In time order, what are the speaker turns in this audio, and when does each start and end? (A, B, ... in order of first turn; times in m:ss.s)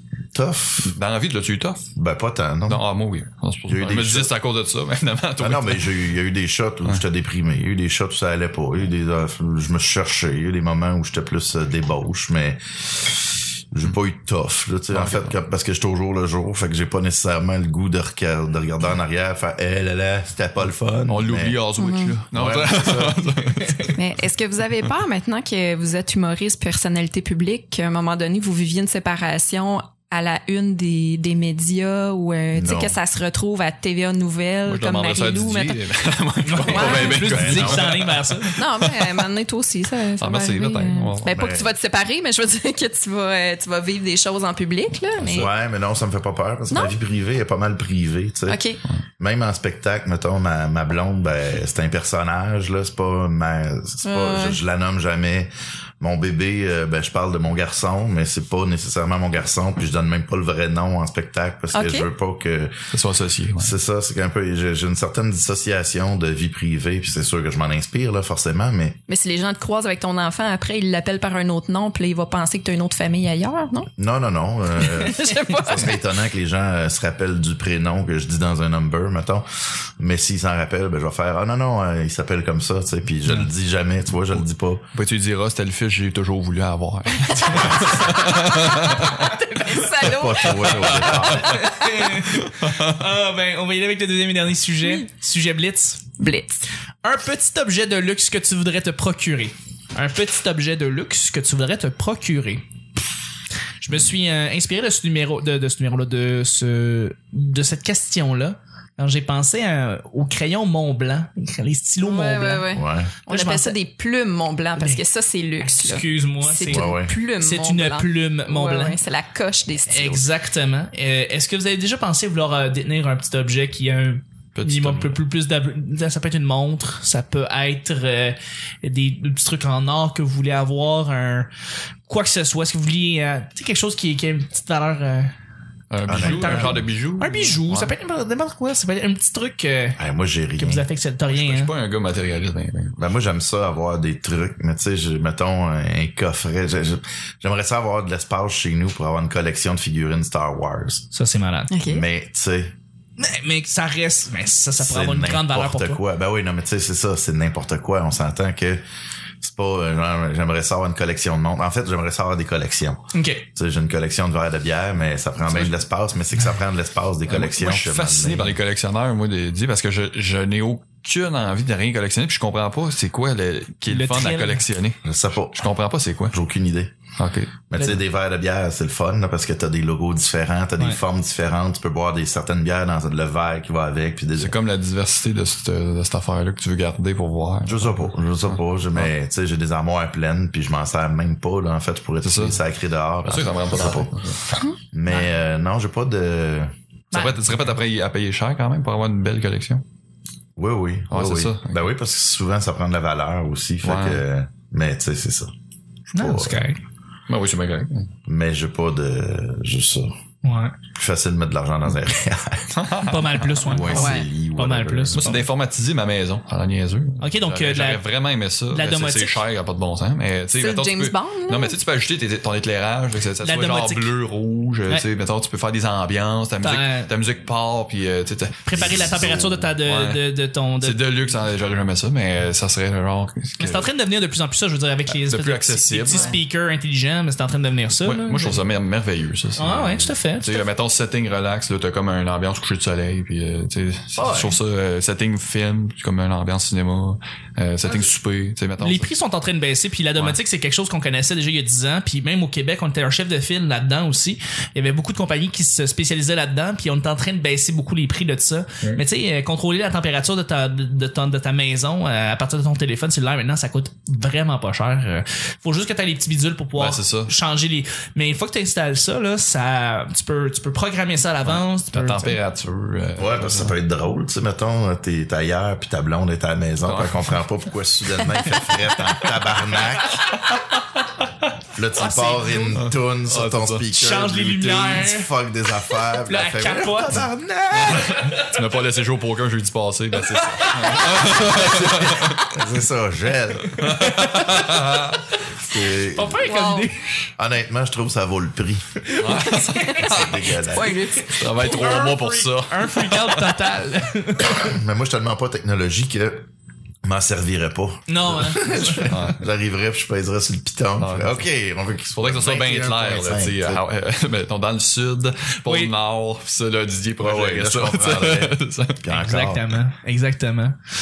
0:00.3-0:01.0 A
0:00.8-0:01.8 B
0:02.0-0:02.8 A
0:02.7-0:06.0 B
0:03.7-0:04.3 A
0:05.4-0:21.6 A
0:14.9-0:15.3 B
0:21.1-0:24.0 B
0:21.8-0:22.1 C
0:22.3-0:23.3 A
0:23.6-0:23.9 D
0:24.0-0:35.9 C
0:32.5-0:33.0 A
0:34.7-0:39.3 B
0:36.4-0:38.6 D
0:36.6-0:37.4 C
0:37.2-0:38.0 A
0:38.6-0:45.5 C
0:40.2-0:41.5 B
0:41.3-0:41.7 A
0:45.2-0:48.6 A
0:48.5-0:48.8 C
0:49.2-1:02.8 A
0:54.0-0:54.6 C
1:01.7-1:02.1 C
1:02.9-1:03.8 B
1:03.6-1:09.0 A
1:09.1-1:13.9 C
1:14.0-1:24.8 A
1:14.8-1:16.0 C
1:24.9-1:29.3 B
1:27.3-1:32.1 C
1:30.0-1:31.7 A
1:30.5-1:31.6 B
1:31.5-1:36.1 D
1:32.4-1:33.0 B
1:36.2-1:36.6 C
1:37.0-1:42.6 D
1:43.8-1:52.7 D
1:52.0-2:00.3 C
1:52.8-1:53.1 A
1:53.3-1:53.8 D
1:54.8-1:55.0 D
1:55.6-1:59.0 D
1:56.7-1:57.2 A
1:59.9-2:11.5 D
2:04.6-2:05.2 B
2:12.1-2:15.3 D
2:15.9-2:17.9 B
2:16.1-2:16.9 A
2:16.1-2:20.0 D
2:20.0-2:20.8 A
2:20.6-2:21.7 D
2:21.3-2:23.0 B
2:23.0-2:31.1 A
2:31.1-2:31.7 D
2:31.7-2:32.0 C
2:31.8-2:32.7 A
2:33.2-2:36.0 D
2:34.8-2:38.8 A
2:39.4-2:48.6 A
2:43.1-2:43.5 D
2:47.3-2:55.0 B
2:53.9-2:54.6 D
2:55.0-2:55.7 A
2:55.6-2:56.4 B
2:56.3-2:57.0 A
2:57.2-2:57.6 B
2:57.7-3:04.6 A
3:04.4-3:09.1 B
3:07.7-3:14.2 A
3:12.2-3:12.6 B
3:13.2-3:14.4 B
3:14.9-3:16.7 A
3:17.1-3:17.7 D
3:17.1-3:19.8 B
3:20.6-3:25.5 A
3:21.1-3:21.9 B
3:23.8-3:24.2 B
3:26.1-3:26.8 D
3:26.1-3:26.6 A
3:27.3-3:28.1 B
3:28.3-3:30.1 A
3:30.4-3:30.8 D
3:31.0-3:32.8 A
3:32.7-3:34.0 B
3:33.0-3:35.4 D
3:33.6-3:35.3 A
3:33.9-3:34.3 C
3:35.2-3:53.9 B
3:37.2-3:38.0 D
3:38.7-3:39.4 D
3:40.6-3:41.8 C
3:43.4-3:44.1 D
3:46.6-3:47.1 D
3:48.6-3:51.0 D
3:48.7-3:49.7 A
3:53.6-3:58.6 D
3:55.1-3:56.4 B
3:58.0-4:09.1 B
3:59.6-4:00.6 D
4:04.2-4:04.6 D
4:08.8-4:32.4 D
4:26.8-4:27.3 B
4:31.4-4:33.8 B
4:33.2-4:40.2 A
4:36.8-4:37.4 B
4:40.2-4:40.6 D
4:41.7-4:48.2 A
4:42.0-4:42.8 D
4:42.8-4:43.9 B
4:43.9-4:45.3 D
4:46.2-4:47.2 D
4:47.8-4:52.5 B
4:47.9-4:48.6 D
4:50.3-4:52.3 D
4:51.3-4:53.9 A
4:53.7-4:55.0 D
4:53.8-4:55.2 B
4:55.6-4:56.5 A
4:56.1-4:57.1 D
4:56.4-4:56.9 C
4:57.4-4:59.0 A
4:59.0-5:00.2 D
4:59.2-5:00.6 B
5:00.0-5:01.0 A
5:00.7-5:02.0 C
5:01.2-5:04.6 D
5:01.3-5:03.6 B
5:04.4-5:06.5 A
5:07.0-5:13.8 A
5:08.1-5:09.1 D
5:09.1-5:09.4 B
5:11.0-5:11.5 B
5:12.2-5:19.1 B
5:15.6-5:15.9 D
5:17.2-5:19.8 A
5:19.1-5:20.8 D